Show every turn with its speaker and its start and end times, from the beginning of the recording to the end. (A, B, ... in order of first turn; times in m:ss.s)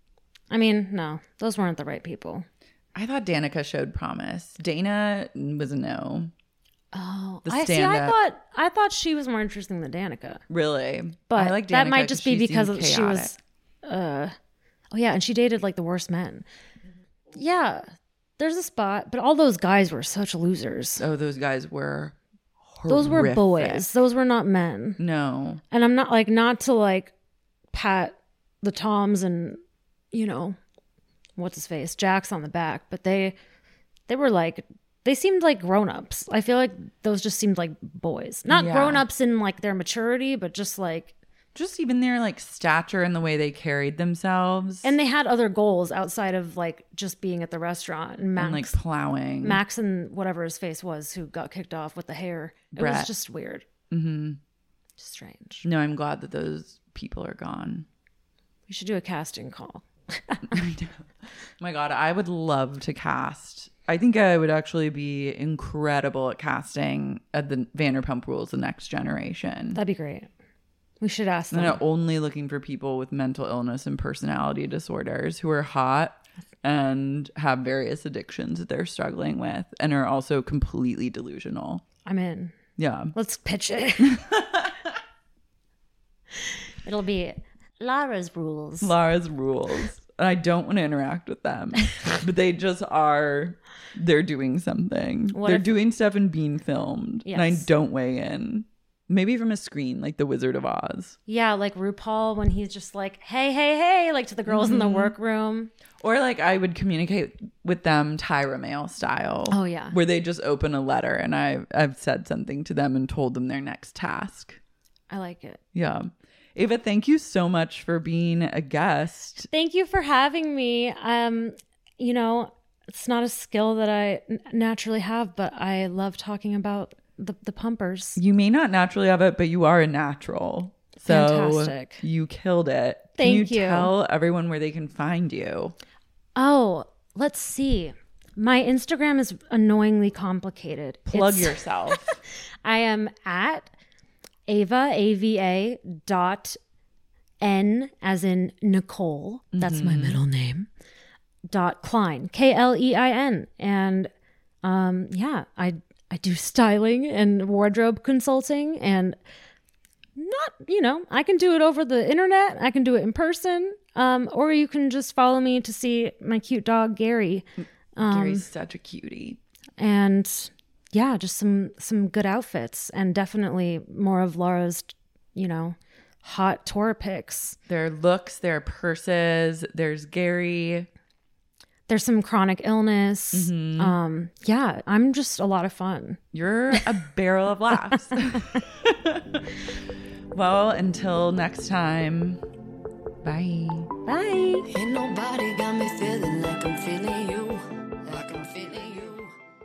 0:00.5-0:02.4 A
0:02.9-0:06.3 B
0:06.9-0:10.4 A
0:07.4-0:08.1 B
0:10.5-0:13.3 B
0:11.3-0:14.3 A
0:14.9-0:16.4 A
0:17.3-0:17.8 A
0:18.4-0:21.0 A
0:21.0-0:22.1 B
0:22.6-0:23.8 B
0:22.9-0:25.0 A
0:25.0-0:25.6 B
0:25.7-0:27.1 A
0:27.7-0:29.6 A
0:30.1-0:30.6 A
0:31.4-0:33.4 A
0:34.1-0:41.1 A
0:38.5-0:39.0 B
0:41.5-0:44.9 B
0:44.8-0:48.7 A
0:48.4-0:49.6 B
0:49.4-0:53.7 A
0:52.7-0:53.1 B
0:53.9-0:54.4 B
0:55.0-0:55.6 A
0:55.6-0:57.8 B
0:58.7-1:00.6 A
1:00.5-1:01.1 B
1:01.6-1:09.8 B
1:09.7-1:10.3 A
1:11.0-1:11.8 A
1:11.5-1:21.8 B
1:22.0-1:22.6 A
1:22.8-1:23.1 B
1:23.1-1:24.2 A
1:24.0-1:25.0 B
1:26.8-1:28.9 A
1:28.8-1:41.2 B
1:35.3-1:35.7 A
1:37.2-1:37.7 A
1:41.3-1:45.7 A
1:44.5-1:45.1 B
1:46.0-1:54.6 B
1:49.5-1:50.0 A
1:55.1-1:55.6 A
1:55.7-1:59.5 B
1:59.5-2:08.2 A
2:08.2-2:15.7 B
2:11.0-2:12.0 A
2:13.2-2:13.9 A
2:16.4-2:22.0 A
2:21.1-2:22.2 B
2:22.6-2:23.7 A
2:24.5-2:26.6 A
2:27.4-2:30.7 A
2:29.5-2:30.2 B
2:31.5-2:34.1 A
2:34.6-2:39.2 A
2:40.1-2:48.4 A
2:48.0-2:49.4 B
2:49.8-2:57.6 A
2:57.7-3:00.9 B
3:01.9-3:06.2 A
3:03.3-3:04.0 B
3:06.3-3:09.5 B
3:08.2-3:08.6 A
3:10.3-3:12.4 B
3:13.2-3:13.9 B
3:14.0-3:14.6 A
3:14.7-3:19.3 C